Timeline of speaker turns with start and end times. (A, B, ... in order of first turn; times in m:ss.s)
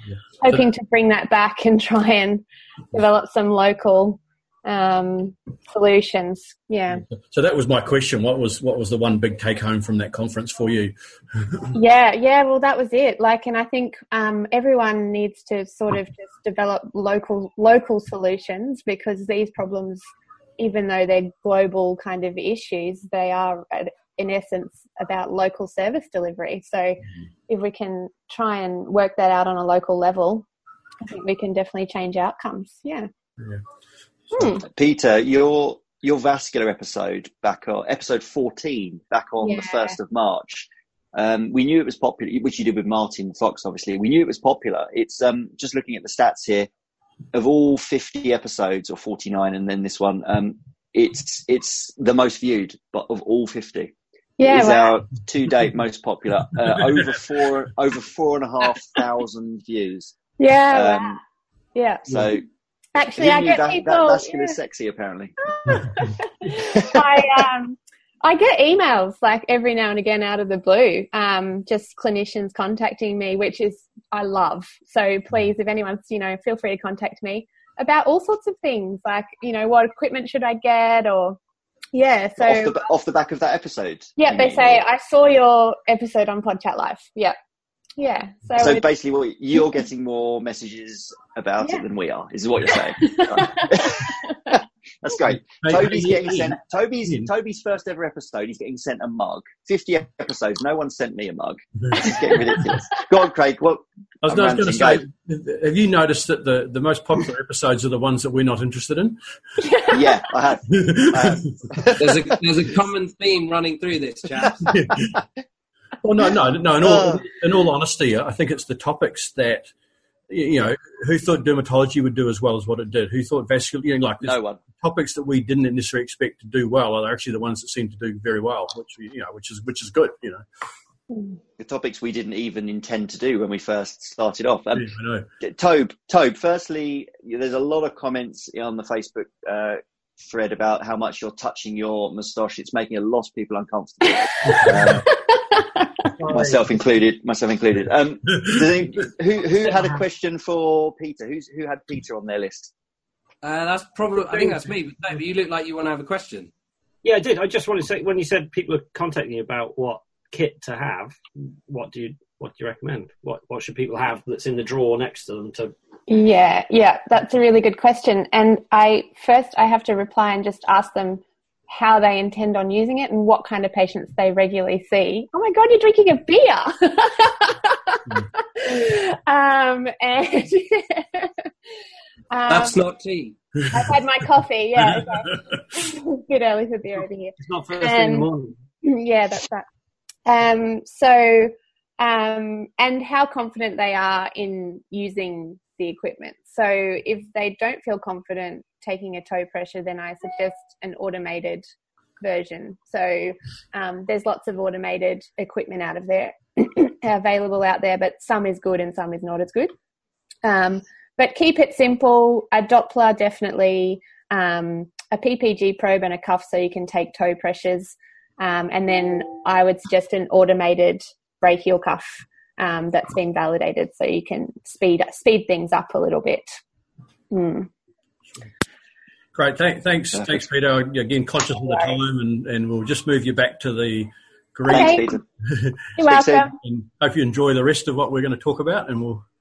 0:00.4-0:07.0 A
0:07.1-0:11.7 B
0:11.7-0:20.0 A
0:20.6-0:30.4 A
0:31.0-0:33.1 A
0:34.3-0:34.6 A
0:34.6-0:46.7 C
0:39.4-0:40.0 A
0:47.3-0:53.9 C
0:54.4-0:55.0 A
0:54.4-1:00.2 C
1:00.4-1:01.2 A
1:00.7-1:01.2 C
1:01.7-1:02.3 A
1:02.1-1:02.4 C
1:02.9-1:04.6 A
1:03.2-1:05.3 C
1:05.4-1:21.4 A
1:06.7-1:07.0 C
1:21.9-1:22.9 A
1:22.4-1:24.8 C
1:24.2-1:27.4 A
1:28.0-1:28.9 A
1:28.6-1:45.0 C
1:29.5-1:29.8 A
1:31.6-1:31.8 A
1:33.0-1:34.1 A
1:35.4-1:37.3 B
1:44.2-1:49.2 B
1:49.6-1:50.2 A
1:49.9-1:52.3 C
1:50.7-1:51.6 B
1:52.0-1:54.7 D
1:54.6-1:55.2 B
1:56.0-1:59.7 B
1:56.8-1:57.3 C
2:00.3-2:10.4 B
2:04.2-2:04.6 C
2:11.6-2:14.8 C
2:14.7-2:15.2 B
2:15.4-2:25.0 C
2:26.2-2:26.7 E
2:26.3-2:32.7 C
2:29.7-2:30.0 E
2:33.4-2:36.5 D
2:37.0-2:45.7 E
2:46.1-3:01.3 A
3:02.3-3:02.8 A
3:02.5-3:03.4 D
3:03.7-3:08.3 A
3:04.8-3:05.4 B
3:07.4-3:08.6 E
3:08.8-3:09.6 A
3:10.2-3:21.7 A
3:22.2-3:29.7 A
3:30.4-3:46.5 A
3:47.3-3:47.7 A
3:49.3-3:55.8 B
3:50.1-3:50.4 C
3:51.6-3:52.0 A
3:54.7-3:55.2 C
3:54.7-3:55.1 A
3:56.0-3:56.5 A
3:56.0-3:56.4 C
3:56.6-3:59.2 B